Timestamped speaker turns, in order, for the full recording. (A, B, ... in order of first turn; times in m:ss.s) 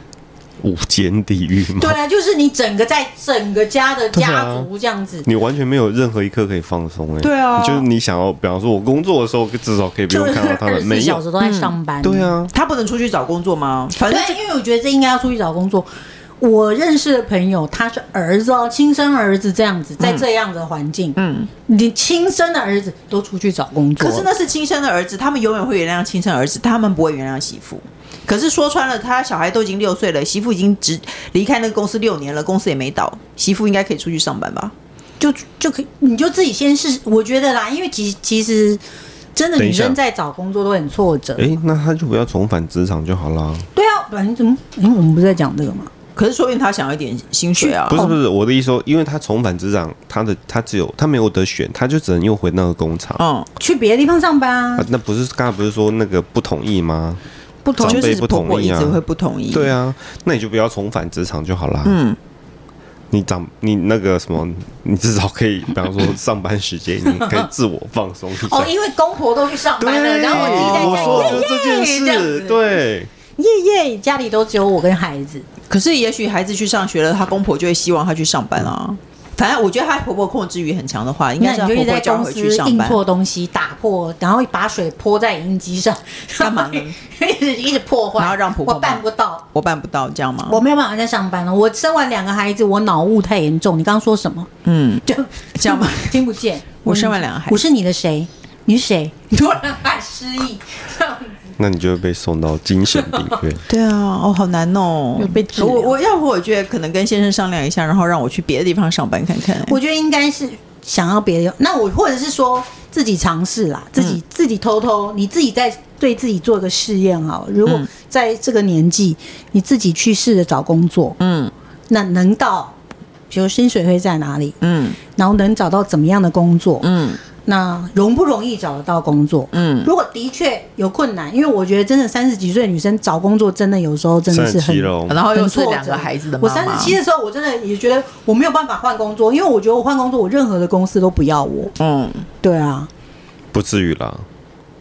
0:00.6-0:02.0 A
0:01.8-0:05.3 B
0:04.1-0:04.7 A
0:05.2-0:11.2 A
0:07.2-0:07.9 C
0:10.1-0:12.3 B
0:11.4-0:11.7 C
0:12.0-0:12.5 A
0:12.5-0:14.4 C
0:14.0-0:24.3 B
0:20.0-0:20.3 C
0:21.2-0:21.5 C
0:24.0-0:34.7 C
0:35.2-0:38.8 B
0:39.3-0:41.5 B
0:39.6-0:40.0 A
0:41.4-0:43.7 A
0:43.7-0:45.9 B
0:46.2-0:48.1 C
0:47.6-0:48.2 B
0:47.8-0:53.2 A
0:53.2-0:53.5 C
0:53.6-0:54.9 B
0:54.8-0:57.2 A
0:57.6-0:58.1 B
0:57.7-0:59.0 A
0:57.8-0:59.7 C
0:59.5-1:02.0 A
1:01.8-1:02.2 C
1:03.1-1:08.7 A
1:07.1-1:07.5 B
1:08.4-1:12.6 B
1:09.8-1:13.1 A
1:10.2-1:11.4 C
1:13.4-1:15.4 B
1:15.7-1:23.0 C
1:21.4-1:29.4 B
1:26.4-1:27.0 C
1:28.2-1:30.6 C
1:30.5-1:34.5 B
1:34.6-1:36.2 C
1:35.1-1:41.5 B
1:36.8-1:37.6 C
1:41.6-1:43.6 A
1:42.9-1:43.4 B
1:43.7-1:49.8 C
1:45.2-1:45.9 B
1:49.6-2:01.2 B
1:57.6-1:57.9 C
2:01.2-2:01.5 C
2:01.9-2:02.7 B
2:03.3-2:04.6 B
2:04.6-2:05.0 C
2:05.1-2:06.9 B
2:06.8-2:07.2 C
2:07.4-2:21.7 B
2:09.5-2:09.9 C
2:14.3-2:15.2 A
2:15.1-2:17.0 C
2:21.8-2:22.2 C
2:22.4-2:22.9 B
2:23.5-2:24.2 A